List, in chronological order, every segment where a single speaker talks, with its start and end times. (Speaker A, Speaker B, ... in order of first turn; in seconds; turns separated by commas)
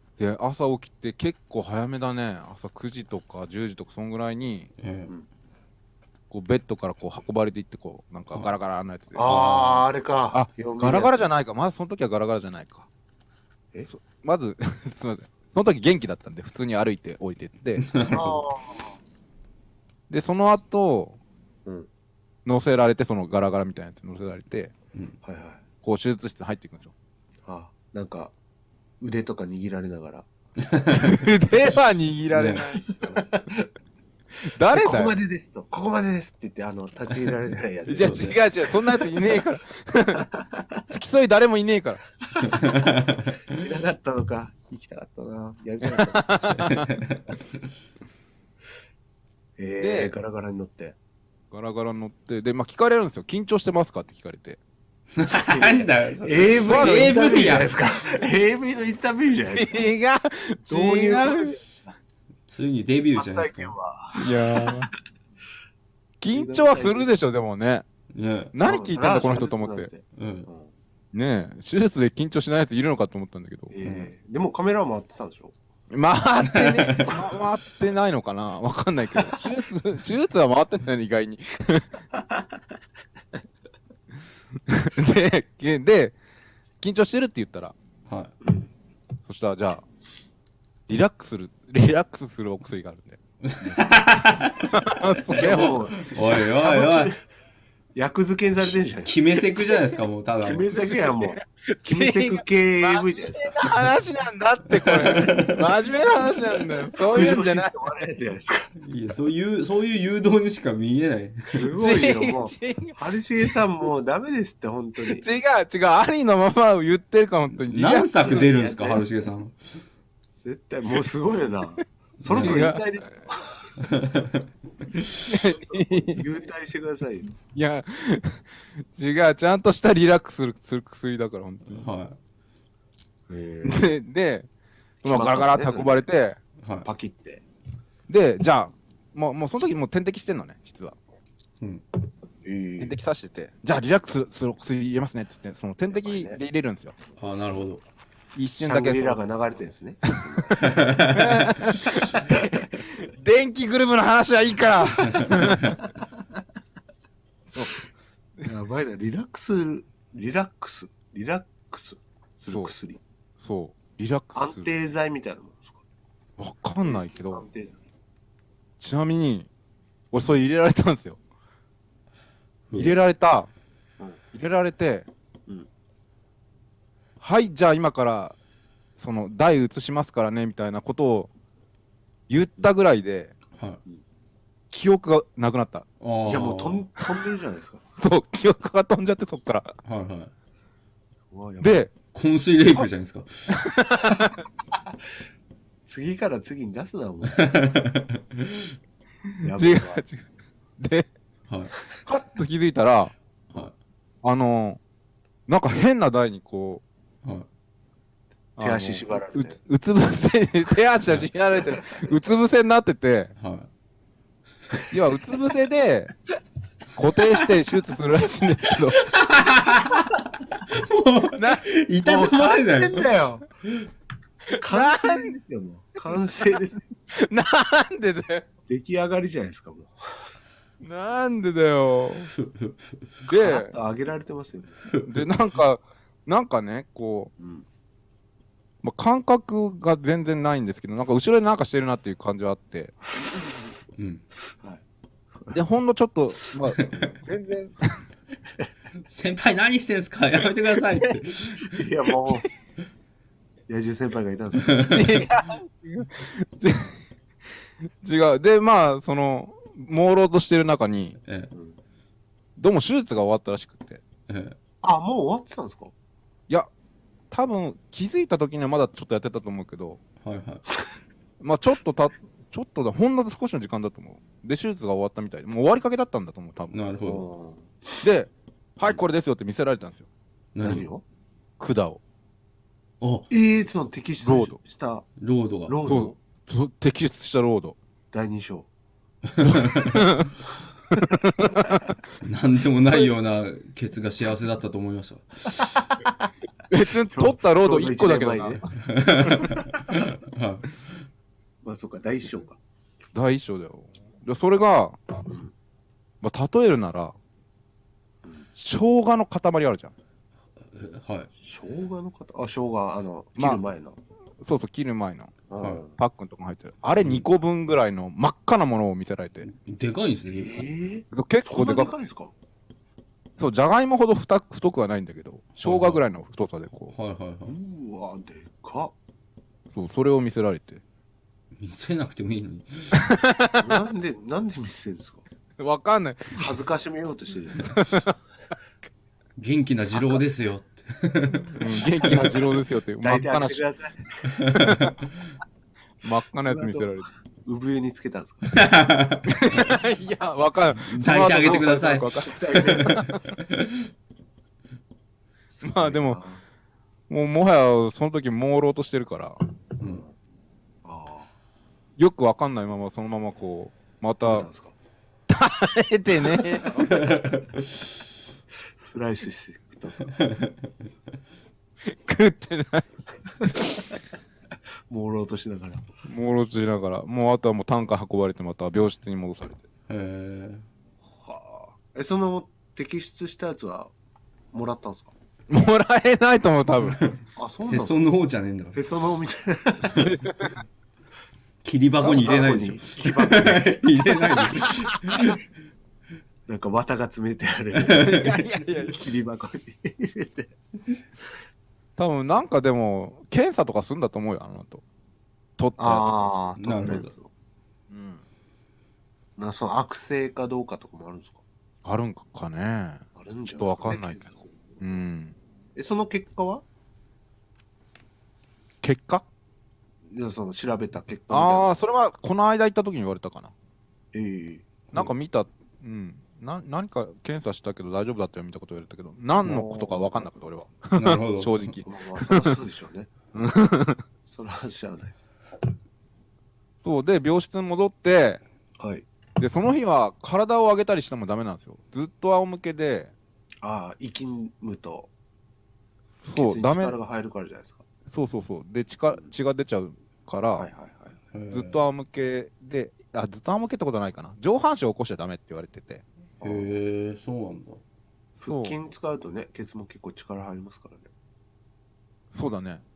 Speaker A: 0.2-4.7, Speaker B: 4.8-5.1, Speaker A: 6.3-12.9, Speaker C: 9.1-11.3, Speaker A: 13.9-17.9, Speaker B: 17.8-18.4, Speaker C: 18.1-18.9, Speaker A: 20.1-21.2, Speaker A: 22.4-24.7, Speaker C: 25.2-25.6, Speaker A: 25.8-26.9, Speaker C: 27.4-28.3, Speaker C: 29.0-30.3, Speaker B: 30.7-31.3, Speaker A: 30.9-33.2, Speaker B: 32.3-32.7, Speaker C: 33.0-33.7, Speaker A: 34.5-35.2, Speaker C: 34.7-39.4, Speaker A: 37.9-40.3, Speaker B: 38.0-38.3, Speaker C: 40.2-40.8, Speaker A: 40.9-42.0, Speaker B: 42.4-43.5, Speaker C: 42.4-42.9, Speaker C: 43.5-46.4, Speaker A: 45.8-46.9, Speaker B: 46.4-47.7, Speaker C: 49.6-51.0, Speaker A: 49.8-50.1, Speaker A: 51.5-54.6, Speaker B: 55.2-57.7, Speaker C: 55.3-59.9, Speaker A: 56.6-57.6, Speaker A: 59.5-61.6, Speaker C: 60.7-61.6, Speaker B: 62.5-64.8, Speaker C: 63.1-64.3, Speaker A: 64.2-64.9, Speaker A: 66.2-67.8, Speaker C: 66.3-67.1, Speaker B: 68.1-68.5, Speaker A: 68.5-69.9, Speaker C: 68.6-70.7, Speaker B: 70.1-70.5, Speaker A: 71.1-73.7, Speaker C: 73.7-75.5, Speaker B: 73.8-74.1, Speaker A: 75.9-81.9, Speaker B: 76.5-77.2, Speaker A: 84.7-86.2, Speaker A: 86.8-87.8, Speaker B: 88.1-88.3, Speaker A: 89.2-89.8, Speaker A: 90.9-93.2, Speaker B: 93.5-94.7, Speaker A: 94.6-95.8, Speaker C: 95.3-97.2, Speaker B: 95.4-97.1, Speaker C: 98.0-99.2, Speaker B: 99.0-100.8, Speaker C: 100.4-103.6, Speaker A: 101.7-107.8, Speaker B: 104.7-105.7, Speaker C: 107.0-108.7, Speaker B: 108.8-111.7, Speaker C: 111.5-115.3, Speaker A: 111.8-113.6, Speaker A: 115.1-118.4, Speaker B: 117.6-119.8, Speaker C: 118.2-119.0, Speaker C: 120.4-123.7, Speaker B: 122.2-122.6, Speaker A: 122.3-122.8, Speaker B: 123.8-125.3, Speaker A: 125.3-126.3, Speaker C: 125.6-127.3, Speaker A: 127.5-131.9, Speaker B: 131.7-132.2, Speaker C: 133.3-133.9, Speaker A: 133.7-134.5, Speaker A: 135.0-136.4, Speaker C: 135.1-136.1, Speaker B: 136.6-136.9, Speaker C: 136.8-137.4, Speaker A: 138.1-141.0, Speaker C: 142.4-143.0, Speaker A: 142.8-146.9, Speaker C: 145.9-146.4, Speaker B: 147.2-147.8, Speaker A: 148.4-149.2, Speaker C: 148.6-150.7, Speaker B: 150.6-151.5, Speaker A: 151.1-155.8, Speaker B: 155.1-155.7, Speaker C: 158.4-163.0, Speaker A: 162.5-162.7, Speaker A: 163.4-164.7, Speaker C: 164.3-165.8, Speaker A: 166.4-167.4, Speaker C: 166.8-167.8, Speaker A: 168.8-169.5, Speaker A: 170.1-171.2, Speaker B: 172.7-173.0, Speaker A: 172.7-173.5, Speaker A: 174.3-175.1, Speaker A: 177.2-178.3, Speaker A: 179.0-181.3, Speaker A: 182.3-183.3, Speaker B: 183.6-183.8, Speaker A: 184.7-185.9, Speaker B: 186.0-186.8, Speaker C: 186.3-187.8, Speaker A: 188.0-189.7, Speaker B: 189.8-190.3, Speaker C: 191.3-191.8, Speaker A: 191.6-191.9, Speaker B: 192.1-193.6, Speaker A: 193.5-194.3, Speaker C: 195.9-197.6, Speaker B: 197.3-198.7, Speaker C: 199.4-200.0, Speaker A: 199.5-200.2, Speaker A: 200.8-201.1, Speaker A: 201.9-203.1, Speaker A: 204.2-204.8, Speaker A: 205.5-206.8, Speaker A: 208.6-213.3, Speaker C: 208.6-209.6, Speaker B: 213.4-213.7, Speaker A: 214.9-216.1, Speaker A: 216.9-219.1, Speaker B: 219.0-223.1, Speaker A: 221.3-221.7, Speaker C: 222.0-223.4, Speaker C: 224.6-226.8, Speaker A: 224.7-225.4, Speaker A: 227.2-228.5, Speaker C: 228.7-230.3, Speaker A: 230.8-232.3, Speaker B: 232.4-232.9, Speaker A: 233.2-233.8, Speaker C: 233.4-234.8, Speaker B: 234.9-235.3, Speaker A: 235.1-237.3, Speaker C: 237.4-237.7, Speaker A: 238.8-242.9, Speaker B: 244.0-244.2, Speaker A: 245.5-248.0, Speaker B: 246.8-247.1, Speaker B: 249.1-251.7, Speaker C: 251.7-252.5, Speaker C: 253.7-254.8, Speaker B: 254.6-255.1, Speaker A: 254.9-257.0, Speaker A: 258.0-261.2, Speaker B: 261.3-261.5, Speaker A: 262.6-264.0, Speaker B: 264.3-264.6, Speaker C: 264.8-265.9, Speaker A: 267.3-270.0, Speaker B: 270.2-270.6, Speaker A: 271.4-276.8, Speaker B: 276.7-277.2, Speaker C: 277.1-277.7, Speaker A: 278.0-280.1, Speaker B: 280.6-280.9, Speaker C: 280.6-281.0, Speaker A: 281.6-282.0, Speaker B: 283.0-283.3, Speaker C: 283.3-285.1, Speaker A: 284.2-284.6, Speaker B: 285.2-285.8, Speaker C: 285.7-286.2, Speaker A: 285.9-287.8, Speaker C: 288.1-288.7, Speaker B: 289.3-290.1, Speaker A: 289.9-290.3, Speaker A: 290.9-291.9, Speaker B: 292.2-295.6, Speaker C: 295.6-296.3, Speaker A: 296.7-298.7, Speaker C: 297.1-298.6, Speaker B: 298.9-300.7, Speaker C: 301.6-302.6, Speaker A: 303.1-305.2, Speaker C: 305.3-305.5, Speaker A: 306.2-307.1, Speaker A: 308.6-309.9, Speaker B: 310.7-311.3, Speaker C: 311.4-314.0, Speaker A: 314.4-315.4, Speaker C: 315.5-315.9, Speaker A: 316.0-319.5, Speaker B: 317.0-317.3, Speaker B: 319.4-320.7, Speaker C: 320.3-322.3, Speaker A: 321.1-321.9, Speaker A: 323.4-326.9, Speaker B: 325.6-326.0, Speaker B: 326.9-327.6, Speaker C: 327.5-328.9, Speaker A: 329.7-330.8, Speaker B: 331.6-333.1, Speaker A: 333.0-333.6, Speaker C: 333.6-335.2, Speaker A: 335.6-336.6, Speaker C: 336.4-337.9, Speaker A: 337.7-338.1, Speaker B: 339.4-342.3, Speaker A: 341.6-343.6, Speaker C: 342.0-342.5, Speaker C: 343.0-344.4, Speaker B: 344.4-345.0, Speaker A: 346.0-347.1, Speaker C: 346.4-348.6, Speaker B: 348.5-349.6, Speaker A: 349.3-353.2, Speaker B: 350.9-353.8, Speaker C: 351.4-353.0, Speaker A: 355.6-356.2, Speaker C: 355.8-356.4, Speaker A: 357.1-359.4, Speaker C: 359.8-360.1, Speaker C: 360.8-361.3, Speaker A: 362.0-364.5, Speaker C: 364.2-364.7, Speaker A: 365.3-367.0, Speaker C: 366.3-366.9, Speaker B: 366.9-367.7, Speaker C: 368.8-370.1, Speaker B: 370.1-370.5, Speaker A: 371.9-373.6, Speaker C: 374.9-375.9, Speaker A: 376.1-379.6, Speaker B: 379.9-380.7, Speaker C: 381.2-383.9, Speaker C: 384.5-385.1, Speaker A: 385.5-387.0, Speaker B: 387.0-388.8, Speaker C: 387.4-388.0, Speaker C: 388.7-390.1, Speaker B: 391.6-395.4, Speaker C: 392.0-393.8, Speaker C: 396.5-400.5, Speaker B: 397.9-398.5, Speaker A: 398.0-399.0, Speaker A: 402.0-404.8, Speaker A: 405.6-406.5, Speaker C: 405.8-407.3, Speaker B: 406.6-407.1, Speaker A: 407.9-408.2, Speaker C: 409.4-411.4, Speaker A: 411.8-413.1, Speaker C: 413.2-414.6, Speaker A: 413.6-415.4, Speaker C: 415.8-416.6, Speaker A: 418.8-419.2, Speaker C: 420.1-421.7, Speaker A: 421.3-423.5, Speaker C: 424.1-424.7, Speaker A: 424.9-432.6, Speaker C: 429.4-430.2, Speaker B: 431.0-431.8, Speaker C: 431.9-433.1, Speaker A: 433.3-434.0, Speaker C: 434.3-435.2, Speaker A: 436.8-438.4, Speaker C: 438.8-439.1, Speaker A: 439.4-443.1, Speaker C: 443.6-445.1, Speaker A: 446.2-447.0, Speaker C: 446.4-447.8, Speaker A: 448.1-450.7, Speaker C: 450.6-451.1, Speaker B: 451.3-451.8, Speaker A: 451.5-456.0, Speaker C: 456.4-456.7, Speaker B: 456.4-457.8, Speaker A: 458.4-458.8, Speaker C: 458.4-461.1, Speaker A: 462.3-462.8